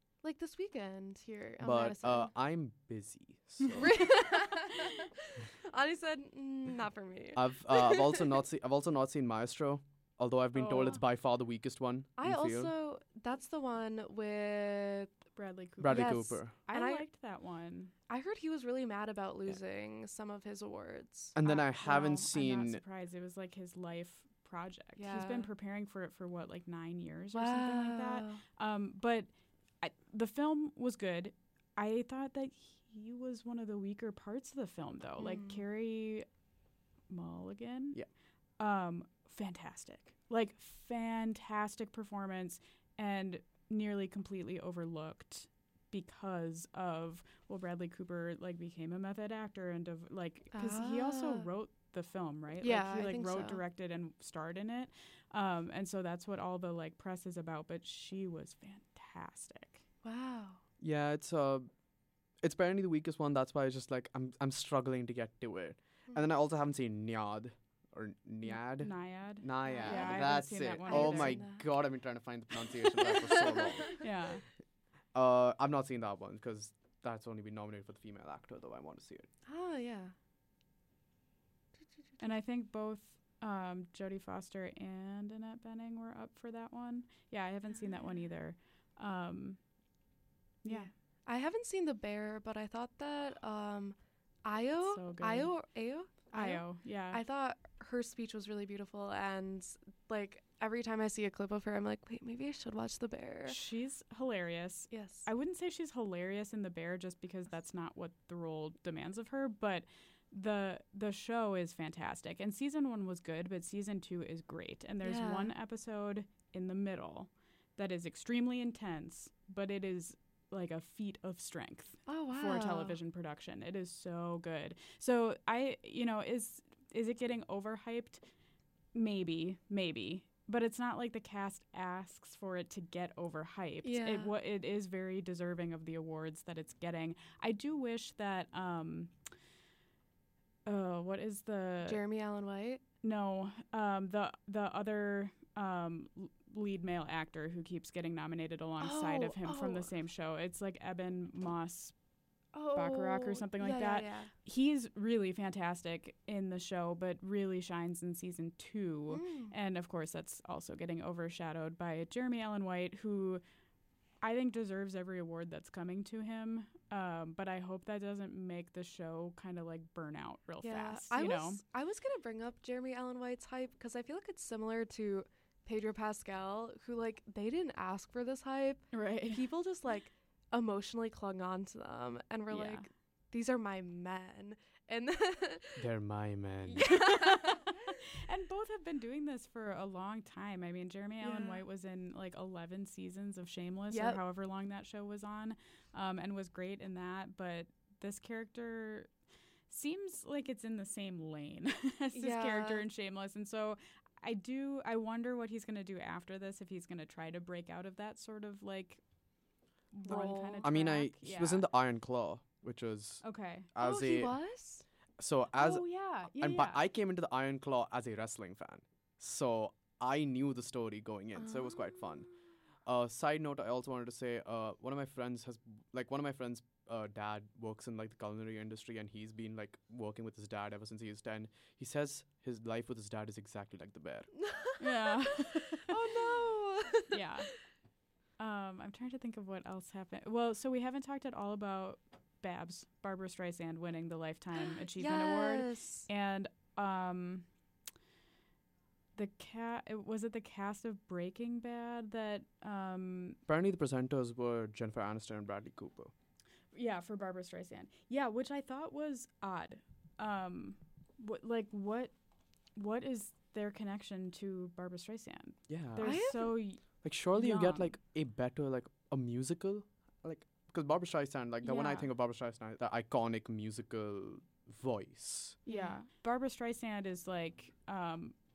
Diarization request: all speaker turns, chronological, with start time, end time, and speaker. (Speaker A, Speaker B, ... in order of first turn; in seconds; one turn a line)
Speaker A: 0.2-2.3
Speaker B: 1.6-4.1
Speaker A: 3.7-8.2
Speaker B: 7.3-12.7
Speaker C: 10.6-11.0
Speaker A: 12.2-15.1
Speaker C: 15.3-17.9
Speaker B: 15.8-16.5
Speaker A: 15.9-17.0
Speaker A: 18.1-21.3
Speaker B: 21.3-22.8
Speaker C: 21.4-29.3
Speaker A: 25.0-25.5
Speaker A: 27.3-28.4
Speaker C: 29.8-36.3
Speaker A: 35.2-35.6
Speaker C: 37.1-38.0
Speaker C: 38.6-59.8
Speaker A: 50.5-51.5
Speaker A: 52.6-53.6
Speaker A: 60.0-60.6
Speaker B: 60.8-61.7
Speaker B: 62.4-74.1
Speaker C: 68.5-71.4
Speaker A: 69.6-71.7
Speaker A: 73.0-73.9
Speaker C: 74.0-74.5
Speaker B: 75.1-79.3
Speaker A: 79.5-80.1
Speaker C: 82.2-89.6
Speaker C: 90.6-90.9
Speaker A: 90.7-103.6
Speaker C: 94.8-95.5
Speaker C: 96.3-97.2
Speaker C: 103.5-128.2
Speaker A: 104.9-105.3
Speaker A: 115.0-115.5
Speaker A: 122.1-123.0
Speaker C: 128.9-139.1
Speaker A: 133.8-134.3
Speaker C: 140.7-142.0
Speaker A: 141.9-142.8
Speaker C: 143.0-151.9
Speaker A: 148.8-149.9
Speaker A: 152.5-154.3
Speaker C: 152.7-163.4
Speaker A: 159.1-159.5
Speaker C: 164.2-171.6
Speaker A: 170.6-185.8
Speaker C: 178.9-179.4
Speaker C: 182.5-182.9
Speaker B: 185.8-186.9
Speaker A: 186.7-187.8
Speaker C: 186.8-199.1
Speaker A: 191.2-191.6
Speaker A: 193.9-194.2
Speaker C: 199.7-209.0
Speaker A: 202.1-202.8
Speaker C: 209.9-211.6
Speaker A: 210.0-210.7
Speaker B: 210.6-214.4
Speaker C: 213.2-213.7
Speaker A: 213.8-214.8
Speaker B: 215.2-222.3
Speaker C: 215.5-216.8
Speaker A: 221.4-222.3
Speaker B: 222.8-234.3
Speaker A: 234.5-237.2
Speaker C: 234.8-235.9
Speaker C: 237.1-237.7
Speaker C: 238.4-247.5
Speaker A: 244.6-246.1
Speaker C: 249.1-253.4
Speaker B: 253.5-256.1
Speaker C: 256.7-262.1
Speaker C: 262.7-267.9
Speaker B: 265.7-275.6
Speaker A: 266.0-266.5
Speaker C: 271.6-272.1
Speaker A: 275.7-276.0
Speaker C: 275.7-278.3